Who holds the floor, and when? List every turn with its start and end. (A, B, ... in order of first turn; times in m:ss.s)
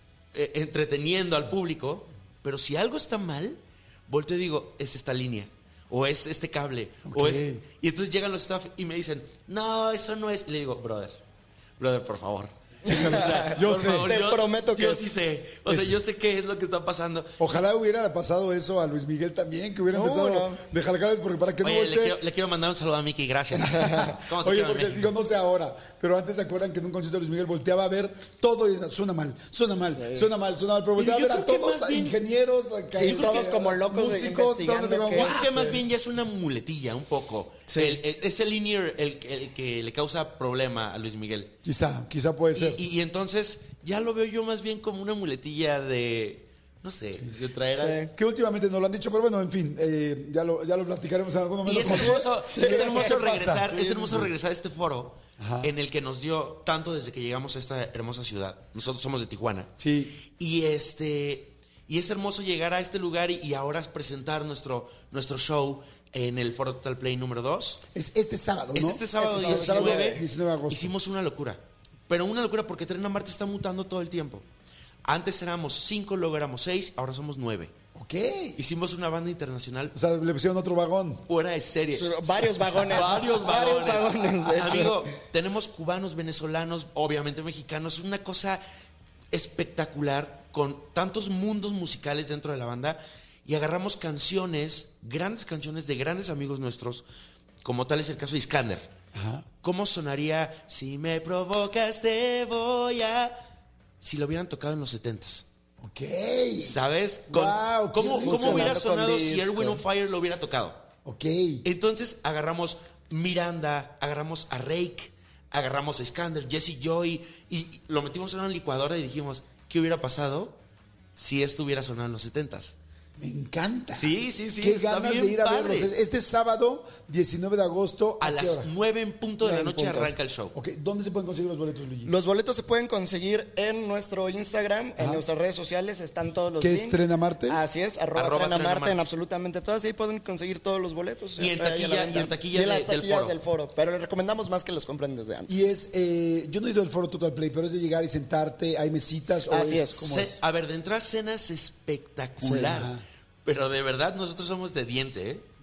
0:00.3-0:11.2 A
0:07.1-0:07.6 B
0:11.8-0:17.6 A
0:12.8-0:14.1 B
0:12.8-0:15.1 C
0:15.6-0:16.0 B
0:17.4-0:22.2 B
0:19.9-0:20.6 C
0:21.6-0:25.1 A
0:23.5-0:35.8 B
0:29.9-0:30.3 C
0:30.9-0:32.2 A
0:33.0-0:35.5 C
0:33.0-0:33.5 A
0:35.1-0:41.5 A
0:37.7-0:38.0 C
0:41.6-0:42.8 B
0:42.5-0:48.1 A
0:47.7-0:48.1 C
0:48.1-0:54.3 B
0:51.6-0:59.7 A
0:51.9-0:53.2 C
0:55.4-0:55.7 B
0:59.8-1:00.2 B
1:00.2-1:07.8 A
1:07.9-1:10.9 B
1:08.7-1:14.4 A
1:09.2-1:10.2 C
1:15.0-1:17.7 A
1:17.9-1:18.6 B
1:18.6-1:19.9 A
1:19.9-1:21.2 B
1:21.2-1:28.6 A
1:21.9-1:25.0 C
1:29.3-1:37.0 A
1:37.6-1:38.9 A
1:39.1-1:39.4 B
1:39.6-1:43.4 A
1:44.0-1:45.4 A
1:45.8-1:46.8 B
1:46.6-1:50.8 A
1:47.3-1:48.8 B
1:48.1-1:49.8 C
1:51.0-1:51.6 B
1:51.6-2:00.6 A
2:01.1-2:02.8 A
2:03.2-2:08.7 B
2:03.9-2:05.9 A
2:08.2-2:10.5 A
2:09.4-2:12.1 B
2:12.0-2:25.7 C
2:15.0-2:15.2 B
2:16.6-2:17.6 B
2:18.1-2:19.0 A
2:21.4-2:23.3 A
2:25.5-2:30.4 B
2:29.5-2:30.0 C
2:30.0-2:35.5 A
2:32.4-2:32.8 C
2:32.5-2:33.0 B